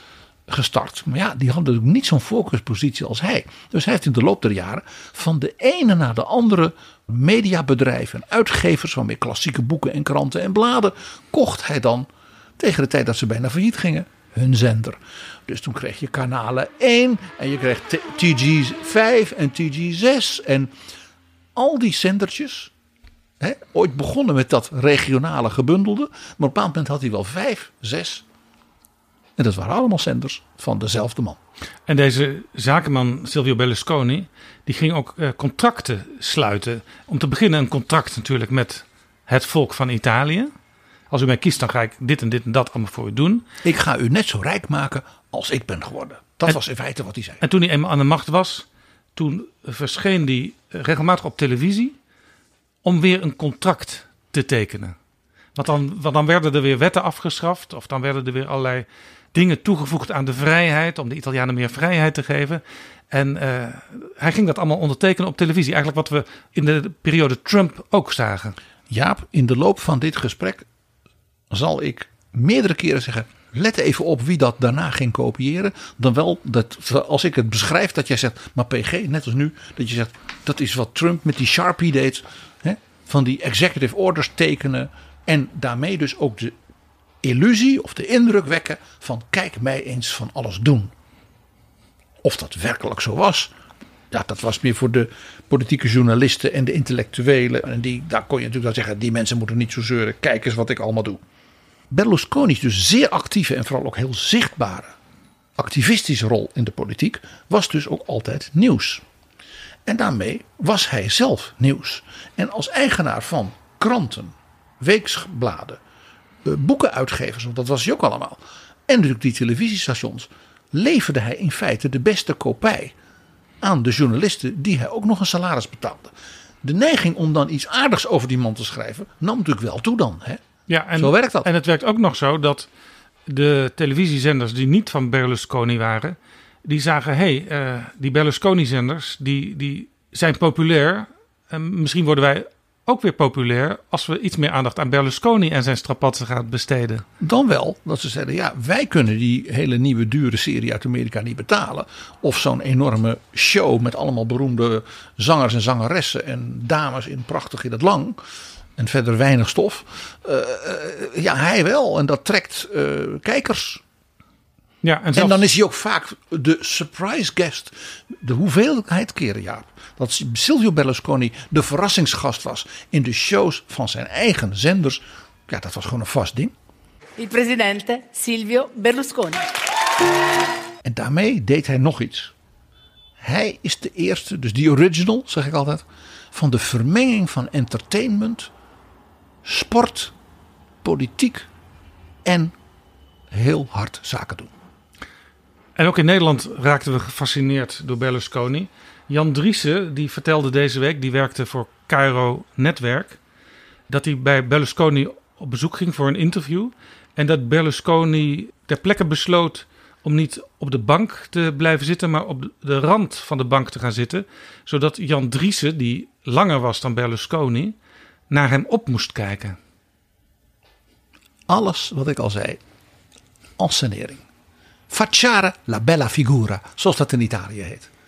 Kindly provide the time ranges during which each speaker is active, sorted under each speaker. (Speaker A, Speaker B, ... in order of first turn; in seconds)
Speaker A: 0.5-20.7, 21.5-22.7, 23.4-28.2, 29.4-31.4, 43.6-47.4, 68.9-70.7, 71.5-86.6, 87.2-90.9, 92.2-93.5, 94.1-101.2, 101.9-104.9, 105.5-109.0, 109.8-115.8, 116.4-122.9, 123.6-130.4, 130.9-131.5, 147.2-158.2, 158.8-163.8, 165.1-176.5, 180.8-182.3, 183.2-188.5, 189.4-190.1, 190.8-191.5, 192.2-192.5, 193.3-194.5, 221.5-222.6, 223.6-224.2, 224.9-227.9
Speaker B: 31.9-40.5, 41.1-43.5, 47.4-52.0, 52.8-55.0, 55.5-68.5, 130.7-132.7, 133.3-147.0, 164.8-165.4, 195.8-203.2, 203.9-217.8, 218.3-219.6
Speaker C: 177.2-179.5